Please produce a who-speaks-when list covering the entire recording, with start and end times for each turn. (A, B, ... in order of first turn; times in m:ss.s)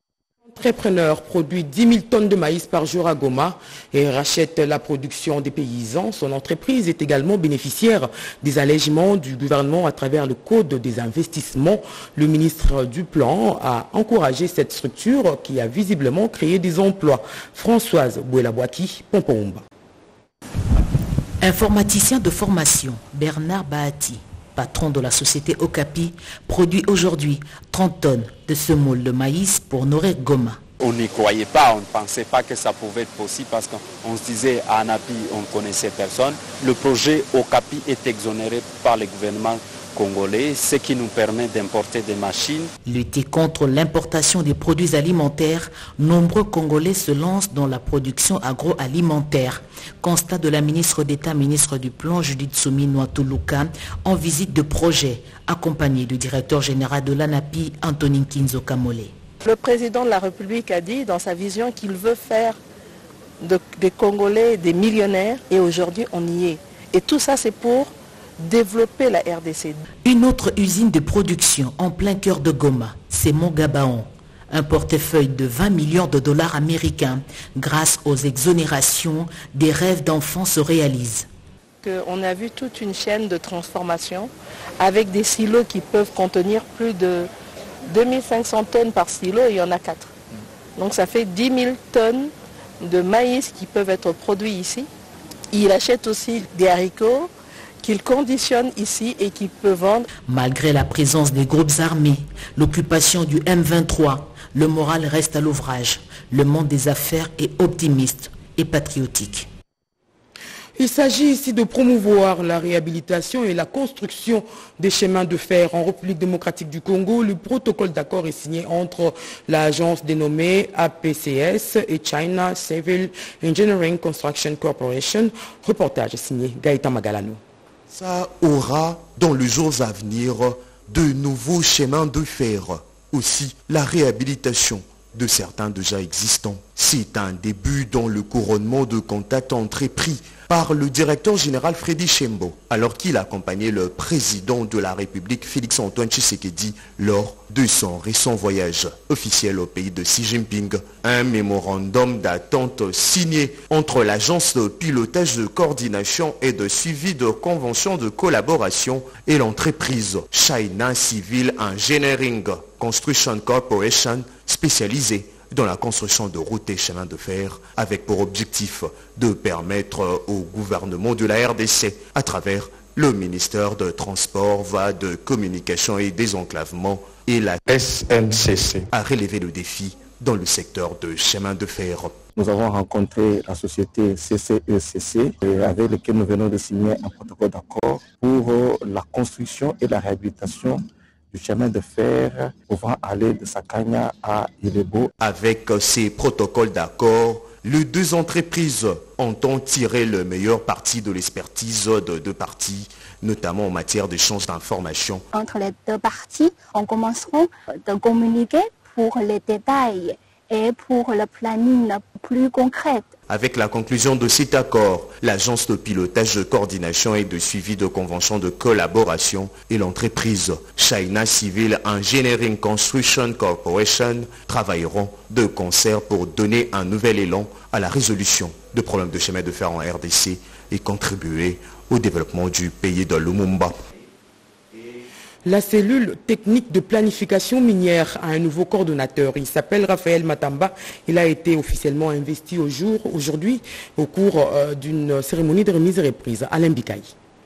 0:00.5-0:19.6 A
0:21.4-0:30.6 B
0:30.8-0:42.7 C
0:42.8-0:59.1 B
0:59.4-1:02.6 D
1:03.4-1:09.8 D
1:10.0-1:21.3 B
1:21.8-1:27.3 D
1:27.9-1:30.1 D
1:30.8-1:34.9 D
1:35.5-1:37.3 D
1:37.8-1:40.1 D
1:40.3-1:49.5 B
1:50.8-2:07.4 A
2:07.9-2:57.6 E
2:58.9-3:02.2 E
3:02.4-3:15.1 F
3:15.2-3:25.2 E
3:25.3-3:33.0 G
3:33.3-3:53.8 E
3:55.4-4:07.1 A